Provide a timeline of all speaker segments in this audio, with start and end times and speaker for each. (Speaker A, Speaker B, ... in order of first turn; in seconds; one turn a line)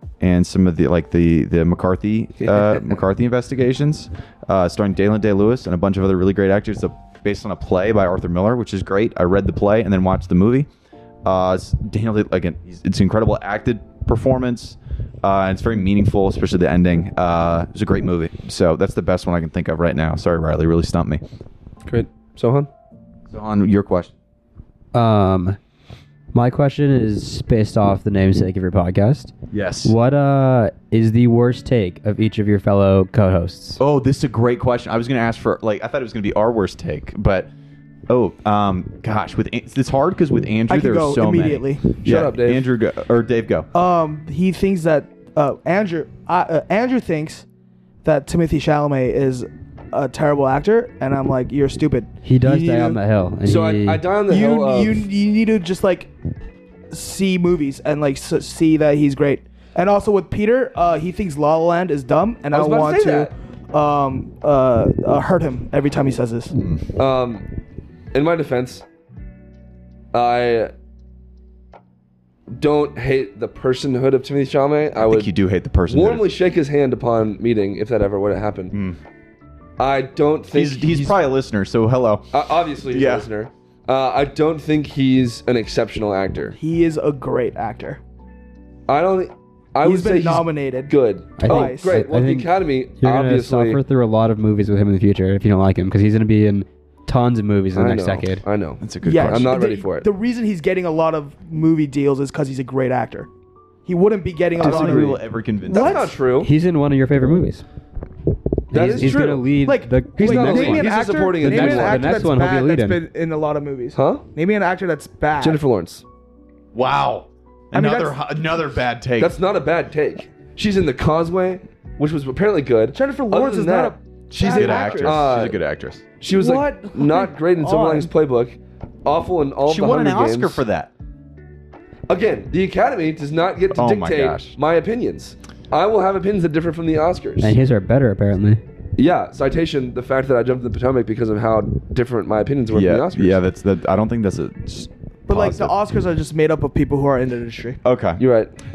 Speaker A: 0.2-10.7
Speaker B: 2.4-2.8
Speaker A: 11.2-21.2
Speaker B: 21.9-22.7
Speaker A: 23.3-24.1
Speaker C: 24.9-25.6
Speaker C: 26.3-29.3
Speaker A: 29.5-29.9
Speaker C: 29.9-33.8
Speaker A: 33.8-37.5
Speaker A: 38.1-43.7
Speaker D: 40.7-41.9
Speaker B: 42.0-42.7
Speaker D: 43.7-47.5
Speaker D: 48.0-53.0
Speaker C: 52.2-54.1
Speaker B: 53.4-55.1
Speaker D: 54.3-56.1
Speaker D: 56.9-66.5
Speaker B: 62.5-63.3
Speaker A: 66.5-66.8
Speaker B: 67.0-67.5
Speaker B: 68.1-68.8
Speaker B: 70.1-70.7
Speaker B: 72.5-75.3
Speaker A: 75.0-76.3
Speaker B: 75.9-78.8
Speaker A: 78.7-79.0
Speaker B: 79.8-81.2
Speaker A: 80.5-83.3
Speaker B: 82.3-86.6
Speaker D: 86.6-88.0
Speaker B: 88.9-93.8
Speaker D: 89.8-92.0
Speaker C: 91.4-98.4
Speaker B: 97.7-100.1
Speaker A: 98.8-99.6
Speaker D: 99.0-103.3
Speaker D: 103.9-106.2
Speaker A: 104.6-106.0
Speaker C: 104.6-105.1
Speaker B: 105.7-106.5
Speaker C: 106.4-107.6
Speaker C: 108.7-113.0
Speaker B: 108.7-109.5
Speaker D: 109.6-115.6
Speaker B: 110.1-112.3
Speaker B: 113.9-114.2
Speaker B: 115.4-116.0
Speaker A: 116.7-119.3
Speaker D: 117.7-118.2
Speaker B: 119.2-125.6
Speaker D: 122.9-125.3
Speaker A: 124.3-126.0
Speaker B: 126.2-130.6
Speaker D: 126.3-128.1
Speaker A: 129.7-130.9
Speaker B: 132.1-137.6
Speaker A: 133.7-134.6
Speaker C: 137.4-138.6
Speaker B: 139.0-143.4
Speaker A: 142.7-145.7
Speaker D: 145.3-147.8
Speaker A: 147.8-148.2
Speaker B: 148.2-148.5